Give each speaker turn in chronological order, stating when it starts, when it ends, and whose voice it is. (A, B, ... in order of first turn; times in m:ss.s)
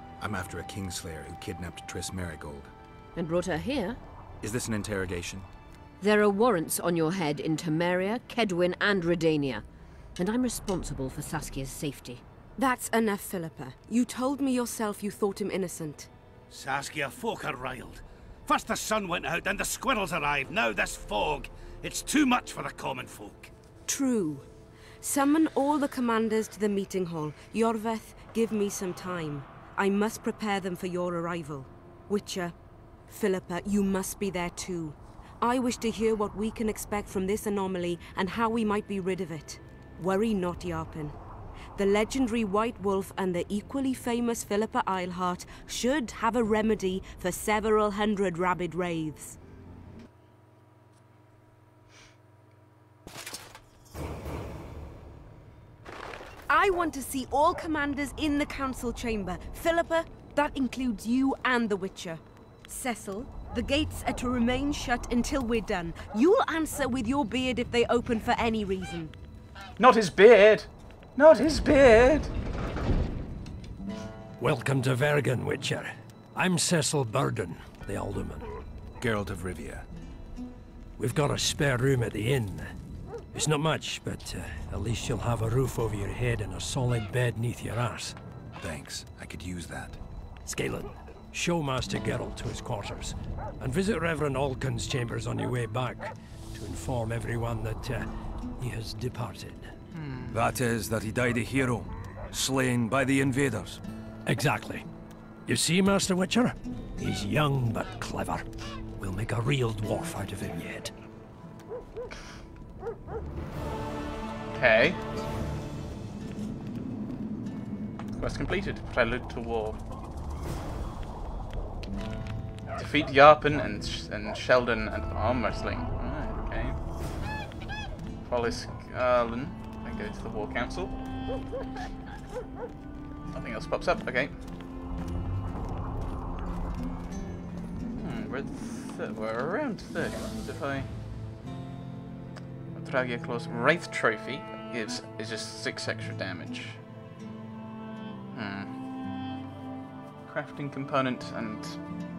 0:00.2-0:02.7 A
0:03.2-0:04.0 B
0:04.4-0:05.5 A
0:06.0-0:09.6 B
0:10.2-0:12.2 B
0:12.6-0:16.1 C
0:16.5-0:23.5 D
0:23.9-0:24.5 C
0:25.0-0:32.5 C
0:33.1-0:41.2 C
0:41.8-0:49.4 C
0:56.5-1:09.1 C
1:09.8-1:12.3 E
1:14.4-1:18.5 F
1:19.0-1:19.8 A
1:21.0-1:22.7 F
1:23.3-1:28.2 F
1:28.6-1:30.0 A
1:30.4-1:39.7 F
1:39.9-1:40.4 E
1:40.3-1:43.8 G
1:44.2-1:44.8 F
1:45.5-1:48.4 F
1:49.0-1:50.9 F
1:54.5-1:55.0 E
1:58.2-1:59.8 E
2:02.7-2:06.8 E
2:08.2-2:11.0 E
2:13.3-2:14.3 E
2:17.9-2:20.9 E
2:22.7-2:26.8 E
2:28.3-2:28.7 E
2:30.2-2:31.8 E